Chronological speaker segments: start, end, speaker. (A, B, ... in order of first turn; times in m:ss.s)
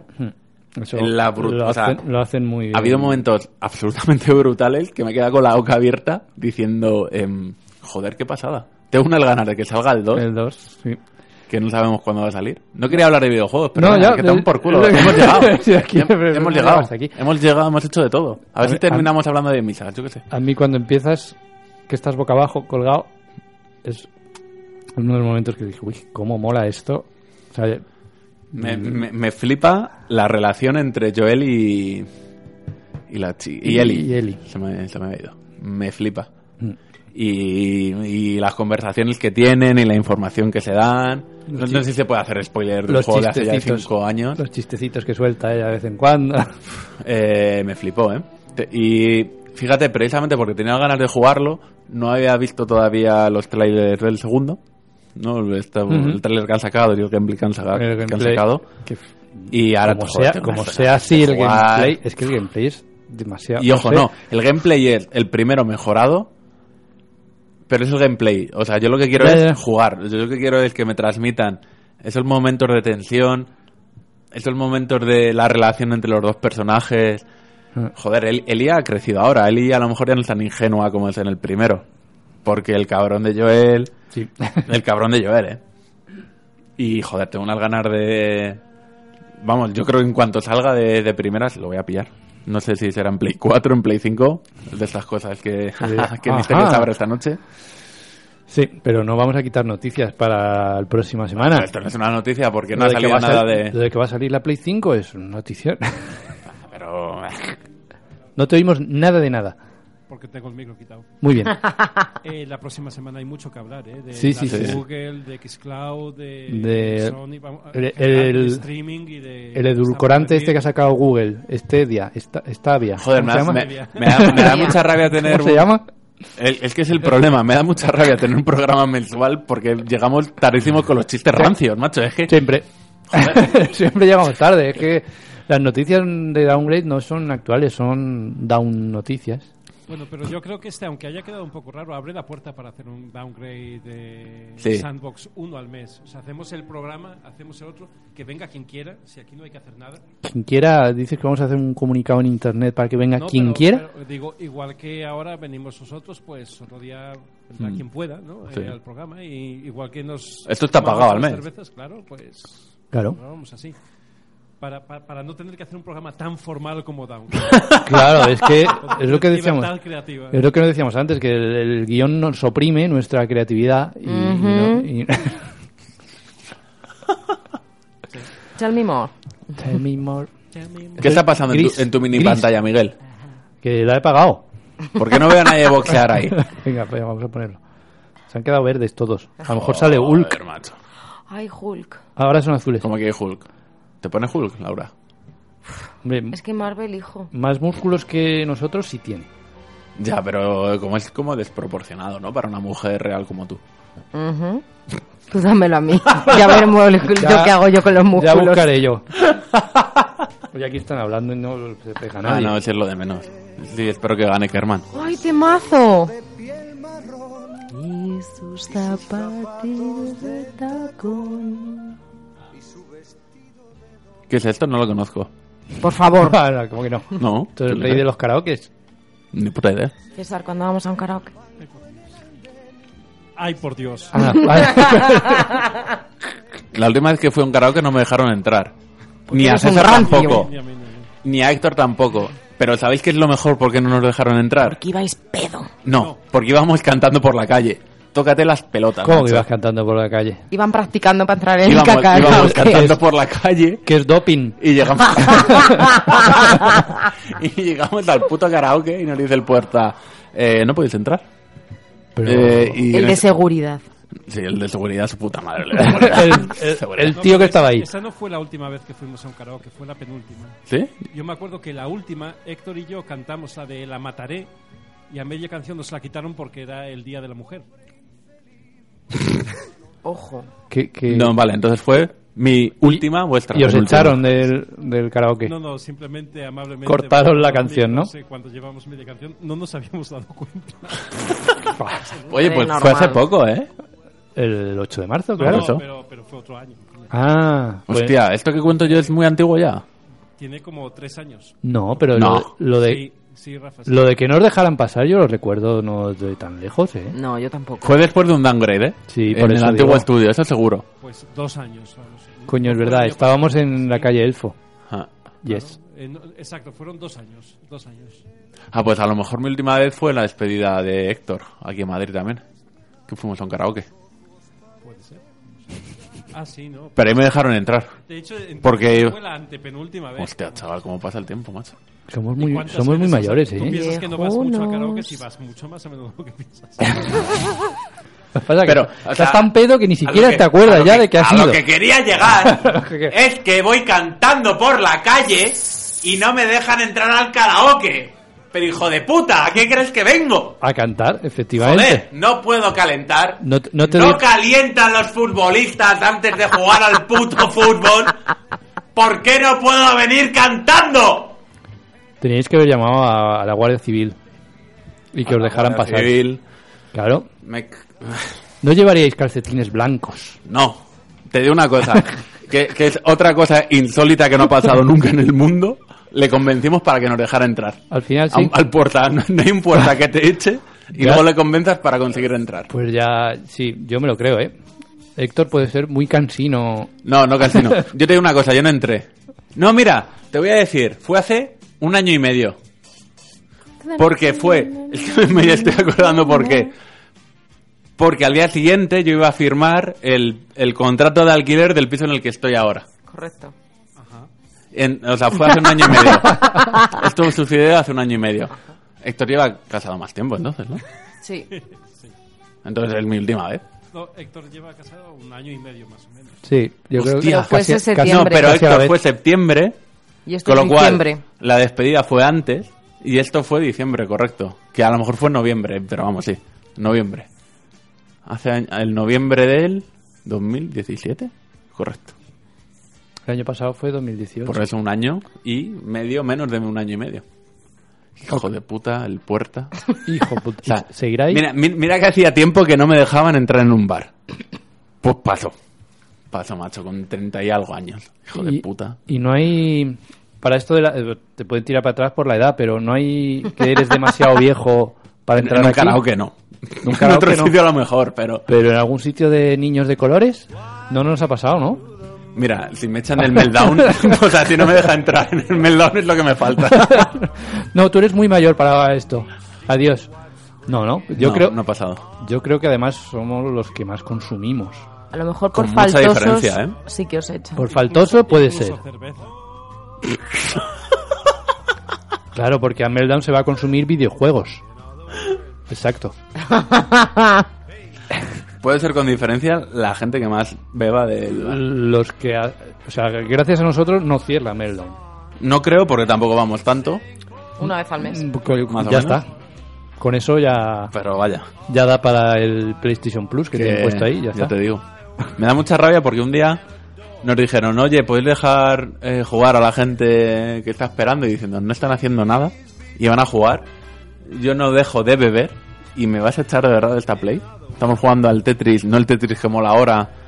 0:00.2-0:03.2 A
0:00.9-0:02.0 B
0:02.7-0:10.2 B
0:10.2-0:11.0 A
0:11.5-0:20.2 B
0:13.8-0:17.2 A
0:18.6-0:19.1 A
0:20.3-0:21.4 A
0:21.9-0:23.1 A
0:25.0-0:27.8 A
0:28.5-0:32.1 B
0:28.6-0:29.0 A
0:33.1-0:36.3 B
0:33.6-0:34.4 A
0:37.1-0:44.4 B
0:41.5-0:41.8 A
0:42.9-0:46.6 A
0:47.0-0:54.6 B
0:55.2-0:58.7 B
0:55.9-0:56.2 A
0:57.8-1:04.1 A
0:59.5-1:02.0 B
1:03.6-1:06.3 B
1:07.7-1:13.5 B
1:09.2-1:09.6 A
1:14.3-1:17.2 B
1:17.9-1:21.8 B
1:22.4-1:23.9 B
1:24.1-1:24.6 A
1:24.6-1:25.6 B
1:26.8-1:28.6 B
1:29.4-1:37.4 B
1:35.8-1:36.9 A
1:38.5-1:41.7 A
1:41.4-1:43.8 B
1:42.7-1:46.3 A
1:46.5-1:47.6 B
1:48.4-1:49.6 A
1:50.1-1:51.1 C
1:51.2-1:51.6 A
1:52.2-2:00.6 C
1:54.2-1:54.8 A
1:54.5-1:54.8 B
1:56.5-1:57.2 A
1:57.7-1:58.6 A
1:59.6-2:05.9 A
2:03.0-2:05.7 B
2:03.4-2:04.6 C
2:04.4-2:04.8 D
2:06.4-2:12.3 B
2:12.3-2:19.5 A
2:13.1-2:13.5 B
2:19.9-2:30.0 C
2:24.6-2:24.9 B
2:30.2-2:33.8 A
2:33.2-2:43.8 C
2:40.5-2:41.4 B
2:42.9-2:43.2 A
2:44.6-2:47.8 C
2:47.8-2:49.7 A
2:48.7-2:50.4 C
2:50.3-2:55.5 A
2:54.0-2:54.9 D
2:58.6-2:59.1 D
2:59.6-3:00.3 A
3:00.6-3:01.0 C
3:01.0-3:02.5 A
3:01.0-3:03.0 B
3:03.6-3:04.4 A
3:05.0-3:06.4 B
3:06.3-3:07.6 A
3:08.3-3:10.4 A
3:09.5-3:10.8 B
3:11.3-3:12.0 D
3:12.2-3:12.9 A
3:12.8-3:13.5 B
3:14.0-3:14.9 B
3:16.0-3:16.4 A
3:16.3-3:17.3 D
3:17.3-3:19.3 A
3:20.0-3:23.6 B
3:24.1-3:24.6 D
3:25.3-3:28.7 D
3:27.1-3:27.6 A
3:28.1-3:29.2 A
3:29.4-3:30.1 B
3:30.5-3:32.6 A
3:32.2-3:34.9 B
3:34.9-3:36.2 D
3:37.7-3:42.0 D
3:44.3-3:45.3 B
3:45.8-3:46.4 D
3:46.2-3:48.7 A
3:47.2-3:48.0 B
3:49.3-3:49.9 B
3:50.2-3:51.3 D
3:51.6-3:51.9 C
3:53.4-3:54.6 C
3:54.1-3:55.7 A
3:56.7-3:58.8 B
3:59.3-4:00.5 B
3:59.3-4:00.5 D
3:59.6-4:01.1 C
4:01.2-4:04.8 B
4:04.7-4:05.7 D
4:05.8-4:09.4 B
4:05.9-4:06.2 C
4:09.0-4:10.4 A
4:10.5-4:12.9 D
4:11.6-4:13.8 B
4:12.2-4:13.0 A
4:13.8-4:14.6 A
4:14.6-4:21.3 B
4:15.1-4:15.9 A
4:22.2-4:22.8 A
4:22.2-4:23.4 B
4:22.9-4:23.8 D
4:24.2-4:27.2 B
4:25.8-4:27.9 A
4:27.0-4:34.5 C
4:30.7-4:31.0 B
4:35.1-4:37.6 C
4:40.0-4:40.5 D
4:40.7-4:41.3 A
4:41.1-4:44.2 B
4:42.8-4:45.5 A
4:45.5-4:52.6 C
4:46.9-4:48.1 A
4:51.8-4:52.0 A
4:52.3-4:53.7 B
4:52.3-4:53.2 D
4:54.4-4:55.7 A
4:55.4-4:57.1 C
4:55.4-4:55.8 B
4:57.1-4:58.2 A
4:57.9-4:59.8 B
4:58.8-4:59.1 C
5:00.4-5:01.6 C
5:01.6-5:03.0 A
5:02.1-5:02.5 B
5:02.7-5:04.2 C
5:03.9-5:07.2 A
5:07.1-5:08.0 D
5:07.8-5:10.8 B
5:09.1-5:10.1 A
5:11.0-5:14.1 C
5:12.5-5:14.6 A
5:15.4-5:15.8 A
5:15.5-5:18.2 C
5:18.7-5:22.4 B
5:23.1-5:23.9 B
5:24.8-5:25.8 C
5:26.3-5:27.0 C
5:27.0-5:27.9 B
5:28.1-5:30.6 C
5:28.6-5:29.2 B
5:30.2-5:31.8 B
5:32.1-5:33.8 A
5:32.4-5:37.3 C
5:33.6-5:35.2 D
5:38.4-5:41.6 A
5:38.6-5:39.5 B
5:40.0-5:50.6 B
5:42.5-5:43.1 A
5:50.6-5:52.1 A
5:51.6-5:58.2 B
5:53.4-5:54.2 A
5:59.0-6:01.4 B
6:02.2-6:04.2 A
6:05.1-6:06.2 A
6:05.2-6:06.4 B
6:06.9-6:07.3 A
6:07.4-6:08.3 B
6:08.6-6:10.4 A
6:10.4-6:22.7 B
6:17.9-6:18.5 A
6:21.0-6:21.3 A
6:22.7-6:24.6 A
6:25.2-6:26.9 A
6:27.0-6:32.6 B
6:33.8-6:36.7 D
6:34.0-6:36.7 B
6:38.0-6:42.9 B
6:43.1-6:43.5 D
6:44.0-6:44.3 C
6:44.7-6:50.8 B
6:46.5-6:46.8 D
6:51.2-6:51.5 D
6:51.5-6:52.1 C
6:52.6-6:53.6 B
6:53.9-6:56.4 C
6:56.4-6:59.0 A
6:57.0-6:59.8 B
6:57.4-6:58.6 D
7:00.3-7:01.2 D
7:00.4-7:07.3 B
7:08.3-7:12.1 B
7:13.3-7:14.6 A
7:14.4-7:17.2 B
7:18.2-7:19.8 B
7:20.1-7:21.4 A
7:20.6-7:24.1 B
7:25.0-7:25.6 B
7:26.3-7:29.0 B
7:28.4-7:36.0 A
7:35.4-7:38.5 B
7:36.8-7:37.6 A
7:38.5-7:41.8 A
7:42.4-7:47.1 B
7:46.6-7:50.1 A
7:50.7-7:51.6 A
7:51.1-7:52.0 B
7:52.1-7:54.9 A
7:55.1-7:57.6 D
7:55.5-7:56.8 B
7:57.6-7:58.8 A
7:57.6-7:59.6 C
8:02.4-8:04.6 A
8:05.7-8:06.2 A
8:06.4-8:07.4 D
8:08.6-8:11.6 B
8:11.4-8:15.0 A
8:15.4-8:17.0 B
8:17.6-8:18.3 D
8:17.6-8:19.3 A
8:18.6-8:19.2 B
8:20.0-8:20.9 A
8:20.9-8:21.5 B
8:21.7-8:24.5 A
8:23.5-8:26.6 B
8:27.2-8:33.7 B
8:34.2-8:40.1 B